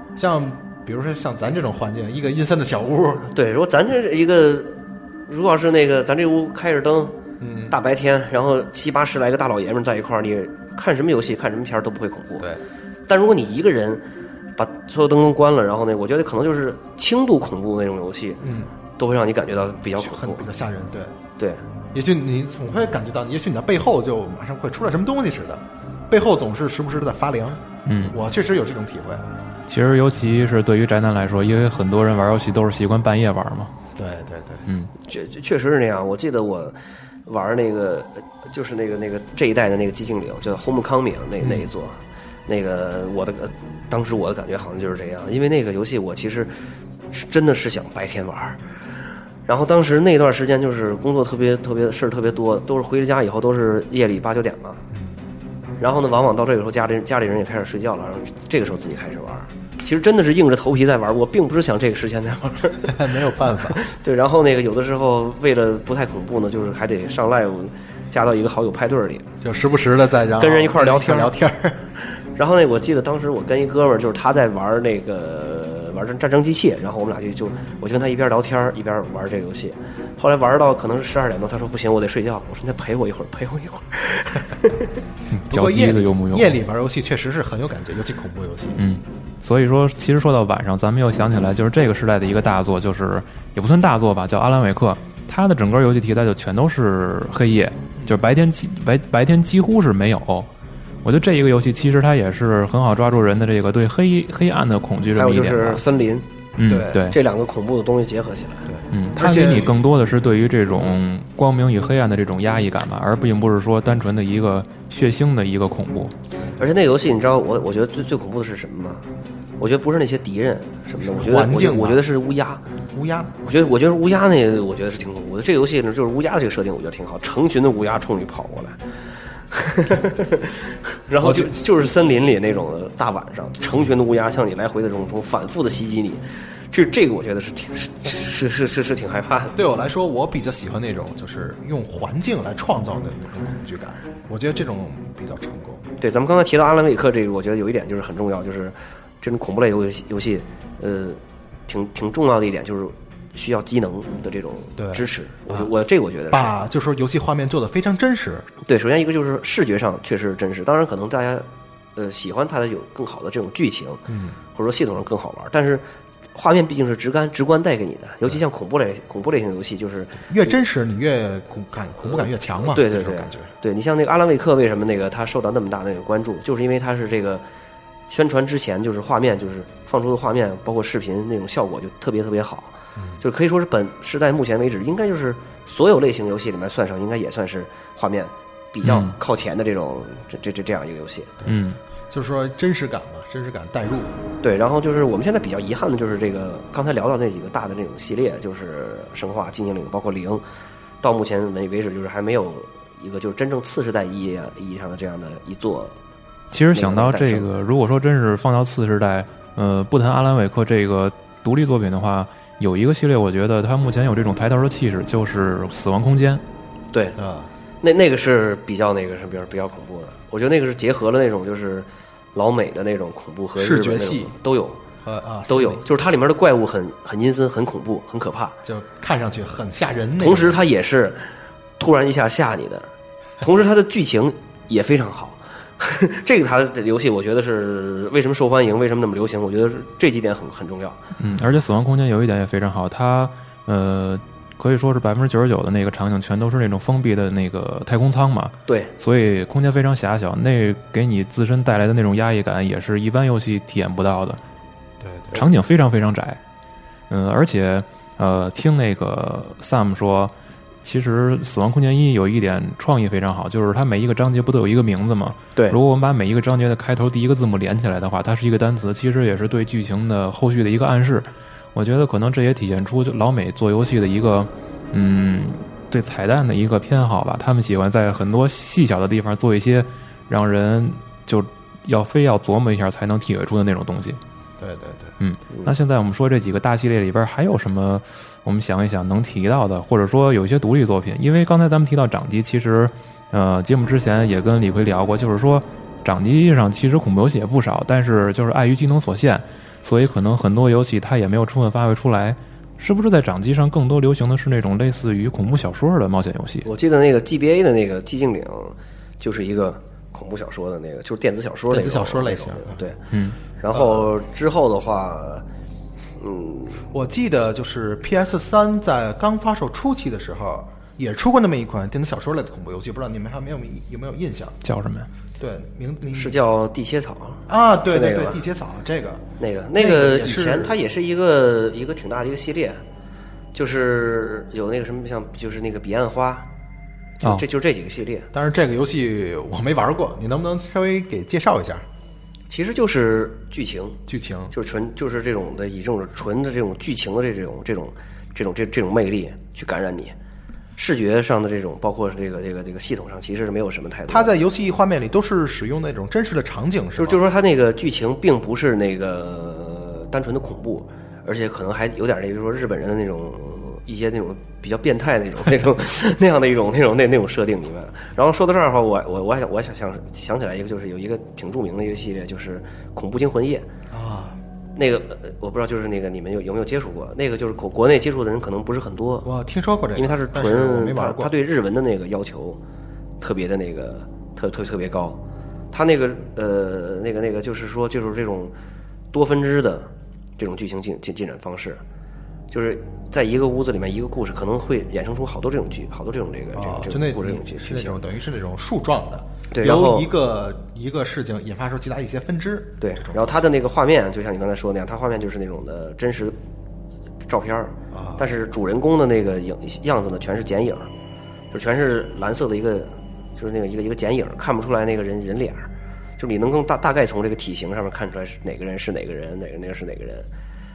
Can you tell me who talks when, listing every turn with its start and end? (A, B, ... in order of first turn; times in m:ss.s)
0:00.2-0:03.3 A
0:03.3-0:04.8 B
0:05.3-0:07.2 B
0:07.4-0:07.8 A
0:07.7-0:12.5 B
0:13.1-0:14.0 B
0:14.6-0:18.4 B
0:18.4-0:18.7 A
0:19.0-0:20.5 B
0:20.0-0:21.2 A
0:21.9-0:29.3 A
0:27.9-0:28.2 C
0:29.7-0:33.7 C
0:34.0-0:34.7 A
0:35.0-0:46.5 B
0:41.4-0:41.7 A
0:47.1-0:48.6 B
0:49.5-0:54.8 B
0:54.9-0:55.2 A
0:55.8-1:09.3 B
1:02.8-1:03.8 A
1:09.4-1:11.8 A
1:10.4-1:11.4 B
1:12.4-1:25.0 B
1:25.3-1:26.6 C
1:25.5-1:28.8 A
1:28.8-1:40.5 C
1:41.0-1:45.8 C
1:45.1-1:46.3 B
1:46.6-1:47.2 C
1:46.6-1:47.1 A
1:47.1-1:48.7 B
1:48.7-1:49.8 A
1:48.9-1:56.1 C
1:56.6-1:59.0 B
1:59.6-2:02.6 B
2:01.0-2:02.0 A
2:02.9-2:03.4 A
2:03.4-2:08.8 B
2:09.5-2:19.6 B
2:11.2-2:11.6 A
2:19.6-2:25.9 A
2:26.0-2:36.6 B
2:34.8-2:35.7 A
2:36.3-2:38.5 A
2:38.6-2:50.5 B
2:44.1-2:44.4 A
2:50.3-2:53.5 A
2:52.0-2:57.4 B
2:58.1-3:11.4 B
3:03.0-3:03.2 A
3:08.8-3:09.2 C
3:11.5-3:11.8 C
3:12.1-3:14.1 A
3:14.4-3:20.4 B
3:21.0-3:26.0 B
3:26.5-3:36.4 C
3:26.7-3:27.5 B
3:36.9-3:37.2 B
3:37.2-3:37.5 A
3:37.8-3:44.8 B
3:43.6-3:44.3 A
3:45.0-3:45.9 A
3:45.5-3:48.6 B
3:48.6-3:50.6 A
3:50.2-4:01.0 B
4:01.2-4:14.4 C
4:15.0-4:15.4 A
4:15.3-4:16.4 C
4:17.1-4:20.3 C
4:20.8-4:44.2 C
4:44.6-4:45.2 A
4:45.2-5:06.7 C
5:06.6-5:13.0 B
5:11.7-5:12.8 A
5:13.1-5:13.4 C
5:13.6-5:15.4 B
5:13.7-5:14.1 A
5:16.2-5:16.8 B
5:16.9-5:24.6 A
5:24.6-5:25.1 C
5:25.4-5:26.4 A
5:26.1-5:28.4 B
5:27.5-5:29.2 A
5:29.4-5:32.8 B
5:29.8-5:30.7 A
5:33.5-5:36.5 B
5:37.2-5:38.3 B
5:38.3-5:41.8 A
5:42.5-5:44.0 B
5:44.1-5:44.5 A
5:44.5-5:50.1 B
5:50.8-5:54.4 B
5:54.1-5:57.2 A
5:57.0-6:13.7 B
6:13.9-6:14.4 A
6:14.8-6:19.3 B
6:19.2-6:21.3 A
6:20.0-6:22.6 B
6:23.2-6:25.2 B
6:25.7-6:28.5 B
6:29.1-6:31.8 B
6:32.5-6:38.0 B
6:36.5-6:43.4 A
6:39.5-6:40.1 B
6:42.8-6:46.4 B
6:47.3-6:50.9 B
6:47.9-6:48.2 A
6:51.5-7:00.3 B